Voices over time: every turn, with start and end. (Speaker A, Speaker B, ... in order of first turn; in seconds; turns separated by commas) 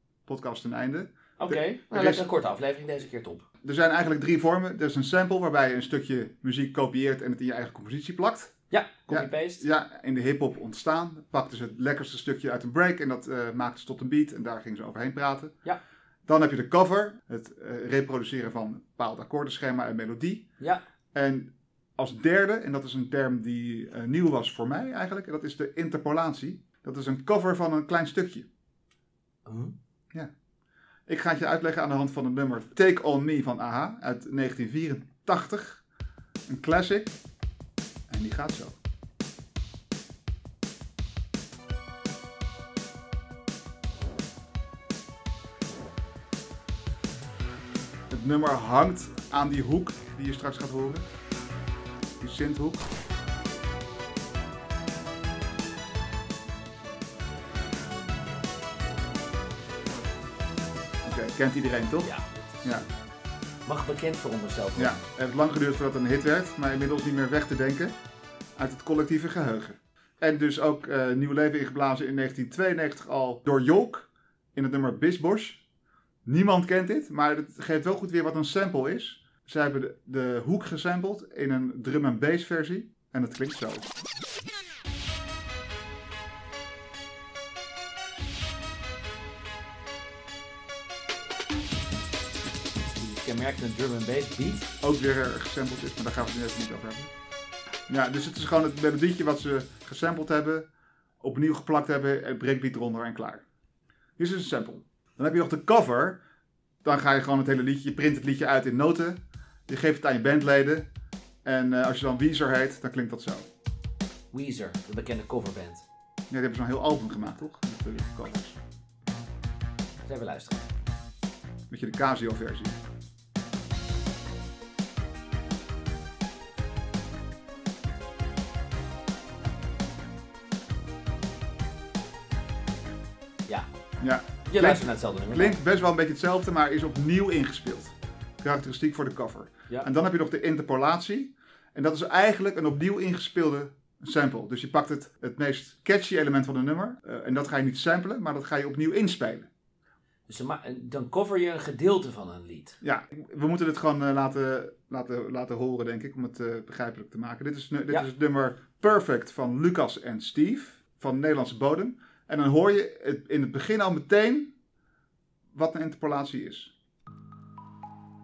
Speaker A: 0.3-2.2, Speaker B: 1.4-3.5, Speaker A: 3.6-8.6, Speaker B: 8.7-9.6, Speaker A: 9.1-15.6, Speaker A: 16.3-20.5, Speaker A: 21.1-28.5, Speaker B: 29.5-29.8, Speaker A: 31.1-35.8, Speaker A: 36.5-37.1, Speaker A: 38.1-38.8, Speaker A: 48.1-51.0, Speaker A: 52.2-52.9, Speaker A: 61.0-62.1, Speaker B: 63.7-65.0, Speaker A: 64.8-68.0, Speaker A: 68.6-75.6, Speaker A: 76.3-83.9, Speaker B: 93.0-94.7, Speaker A: 94.8-97.1, Speaker A: 97.9-100.7, Speaker A: 101.2-103.4, Speaker A: 104.2-106.2, Speaker A: 106.8-110.9, Speaker A: 111.5-113.5, Speaker B: 114.3-115.8, Speaker A: 116.3-118.6, Speaker B: 120.0-120.6, Speaker A: 121.7-122.8, Speaker A: 134.0-149.5, Speaker B: 134.4-135.6, Speaker B: 150.3-152.8, Speaker A: 152.8-164.5, Speaker A: 165.5-166.7